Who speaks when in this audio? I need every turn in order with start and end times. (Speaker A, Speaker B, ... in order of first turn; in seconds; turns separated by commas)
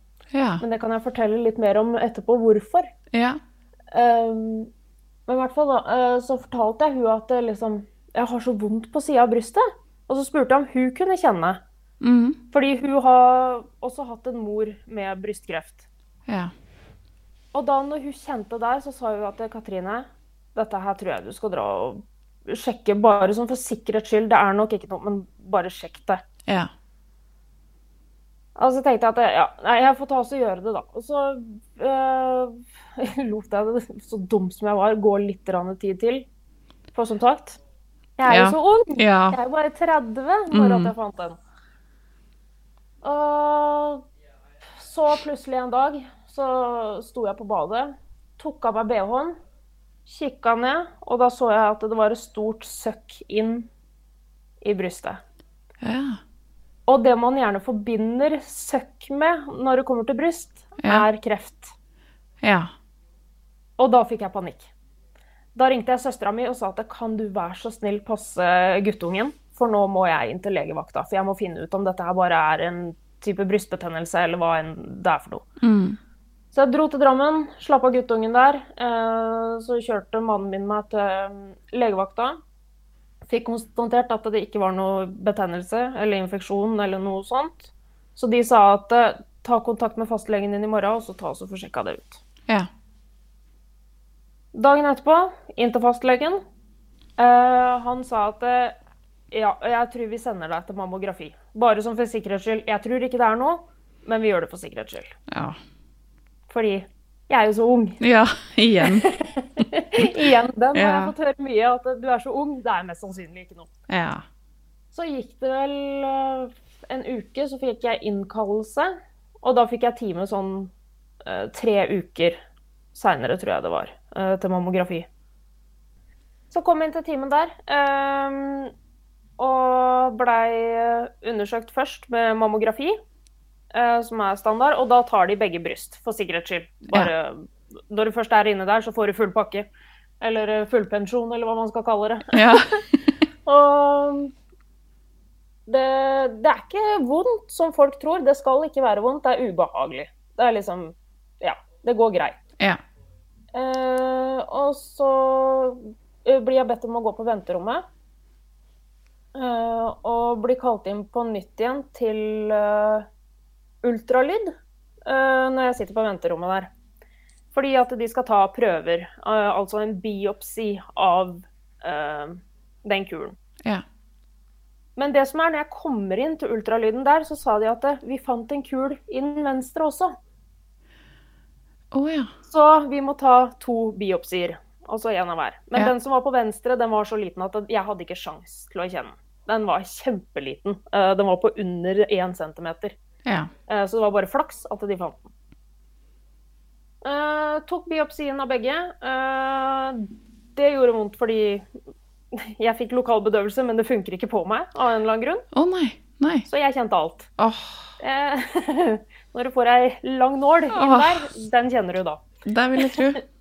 Speaker A: 0.3-0.6, Speaker B: 0.6-2.9, Speaker A: 3.1-3.4, Speaker B: 3.9-4.7, Speaker B: 5.3-11.6, Speaker A: 12.0-12.4, Speaker B: 12.5-15.9, Speaker A: 16.3-16.5, Speaker B: 17.5-26.2, Speaker B: 28.6-36.3, Speaker B: 36.9-37.6, Speaker B: 38.2-41.4, Speaker A: 38.3-39.4, Speaker A: 40.5-40.9, Speaker B: 43.0-44.0, Speaker B: 44.7-49.4, Speaker B: 50.1-53.7, Speaker B: 54.6-55.2, Speaker A: 55.8-56.2, Speaker B: 56.9-61.7, Speaker A: 60.8-61.1, Speaker A: 62.4-62.7, Speaker B: 63.8-64.7, Speaker B: 65.5-75.5, Speaker A: 75.6-76.0, Speaker B: 76.5-82.4, Speaker B: 83.3-92.2, Speaker B: 94.5-96.4, Speaker B: 97.2-98.8, Speaker B: 99.3-105.1, Speaker A: 105.3-105.6, Speaker B: 106.5-108.0, Speaker A: 108.0-109.1, Speaker B: 108.8-113.7, Speaker A: 110.7-111.1, Speaker A: 113.9-114.2, Speaker B: 114.9-120.7, Speaker B: 121.2-122.4, Speaker B: 122.9-125.1, Speaker B: 126.5-128.7, Speaker B: 129.4-133.0, Speaker B: 133.7-139.7, Speaker B: 140.2-142.7, Speaker A: 142.3-143.2, Speaker B: 143.4-144.3, Speaker B: 145.7-152.4, Speaker B: 153.5-157.8, Speaker B: 159.3-163.1, Speaker B: 163.8-164.5, Speaker B: 165.1-166.7, Speaker B: 167.5-173.4, Speaker B: 175.0-180.2, Speaker A: 181.9-182.3, Speaker B: 182.4-192.9, Speaker A: 193.3-193.5, Speaker B: 193.7-195.3, Speaker B: 197.0-201.7, Speaker B: 202.3-205.4, Speaker A: 205.5-206.5, Speaker B: 206.5-207.3, Speaker A: 207.4-207.9, Speaker B: 208.0-212.2, Speaker A: 210.7-211.3, Speaker A: 212.5-213.2, Speaker B: 212.8-213.1